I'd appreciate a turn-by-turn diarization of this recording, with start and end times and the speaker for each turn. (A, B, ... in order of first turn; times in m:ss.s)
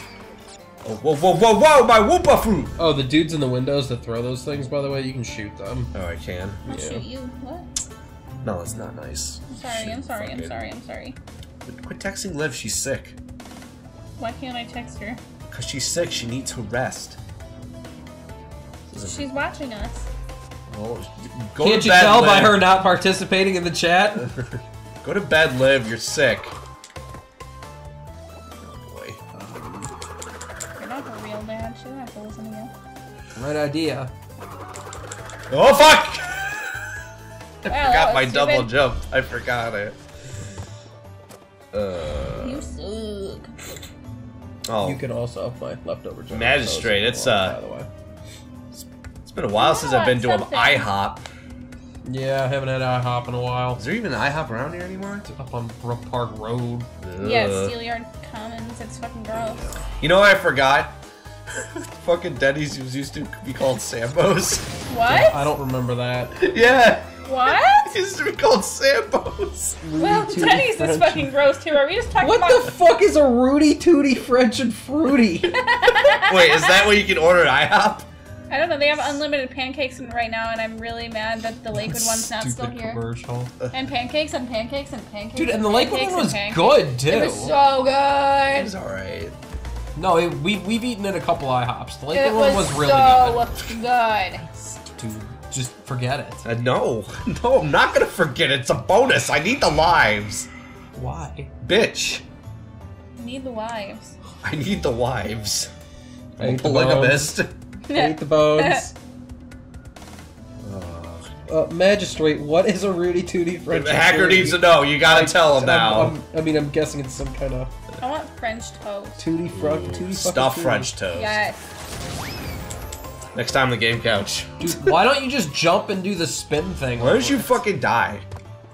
0:00.8-0:02.8 A
0:02.8-0:05.9 B
0:05.9-0:06.6 A
0:06.6-0:07.7 C
0:06.7-0:07.0 B
0:08.4-0:10.6 A
0:09.5-0:11.2 C
0:11.6-0:13.2 A
0:14.2-0:15.2 C
0:15.5-0:17.2 A
0:18.9-0:19.3 A
0:18.9-0:20.0 C
0:20.7-0:22.6 A
0:21.6-0:24.3 B
0:24.2-0:26.5 A
0:28.6-0:29.2 A
0:29.3-0:29.9 B
0:30.8-0:32.7 C
0:33.3-0:34.1 B
0:35.5-0:36.8 A
0:37.6-0:40.0 A
0:37.6-0:38.7 C
0:41.7-0:42.7 A
0:42.4-0:43.5 C
0:44.6-0:45.0 A
0:44.8-0:47.9 B
0:46.3-0:47.6 A
0:48.7-0:51.2 A
0:49.6-0:50.9 C
0:52.0-0:53.8 B
0:53.8-0:55.2 A
0:55.2-0:56.9 B
0:57.0-0:57.7 A
0:57.2-0:59.6 C
0:59.3-0:59.8 B
1:00.0-1:01.0 A
1:01.5-1:04.7 A
1:04.9-1:05.4 C
1:05.0-1:06.5 B
1:06.4-1:09.8 A
1:07.2-1:07.9 C
1:09.8-1:11.3 B
1:10.0-1:12.8 C
1:12.2-1:15.6 B
1:15.5-1:16.8 C
1:16.0-1:18.1 A
1:18.5-1:23.0 C
1:21.7-1:23.5 B
1:23.7-1:28.7 C
1:25.4-1:27.5 B
1:28.5-1:29.4 A
1:30.0-1:33.5 B
1:32.1-1:34.4 C
1:34.8-1:36.4 B
1:36.4-1:40.5 A
1:40.9-1:41.5 B
1:41.6-1:42.2 A
1:43.2-1:44.2 C
1:44.4-1:45.7 A
1:46.4-1:47.5 A
1:46.4-1:47.3 B
1:47.9-1:48.8 C
1:47.9-1:48.9 B
1:50.6-1:51.3 A
1:51.5-1:57.7 B
1:53.7-1:56.2 A
1:58.0-1:59.2 C
1:59.2-2:00.9 B
1:59.5-2:01.4 A
2:01.1-2:01.6 C
2:03.3-2:04.9 A
2:04.6-2:07.6 B
2:07.0-2:08.2 A